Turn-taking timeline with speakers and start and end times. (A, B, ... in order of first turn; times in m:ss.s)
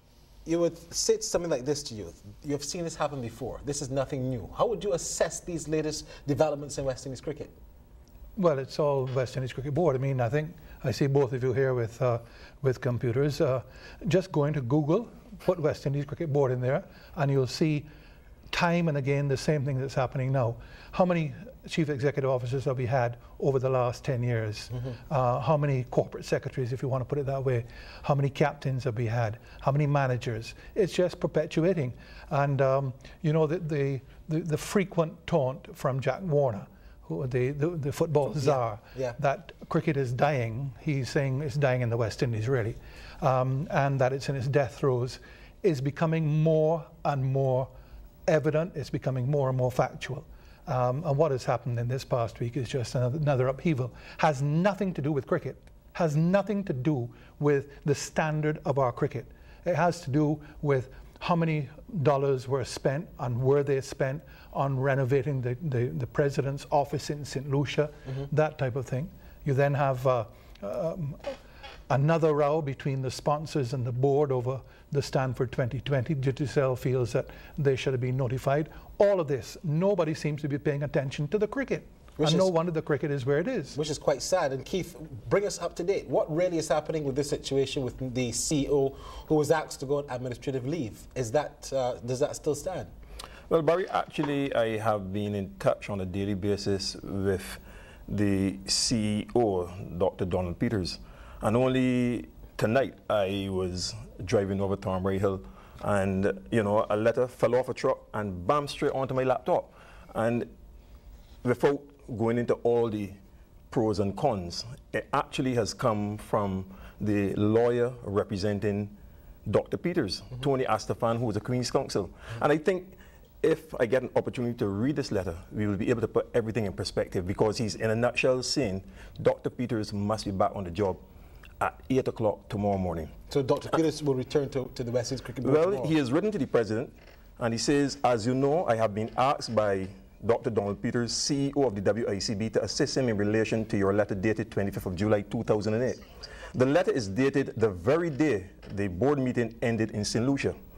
0:00.5-0:07.5 A
0:08.4-0:17.9 B
0:18.5-0:47.7 B
0:38.4-0:39.2 A
0:48.3-1:11.4 B
1:11.9-1:23.8 B
1:22.2-1:22.5 A
1:23.7-1:32.9 A
1:33.5-1:50.5 C
1:51.4-1:53.2 C
1:53.7-2:11.0 C
2:11.6-2:13.1 C
2:13.3-2:15.9 A
2:15.4-2:30.6 C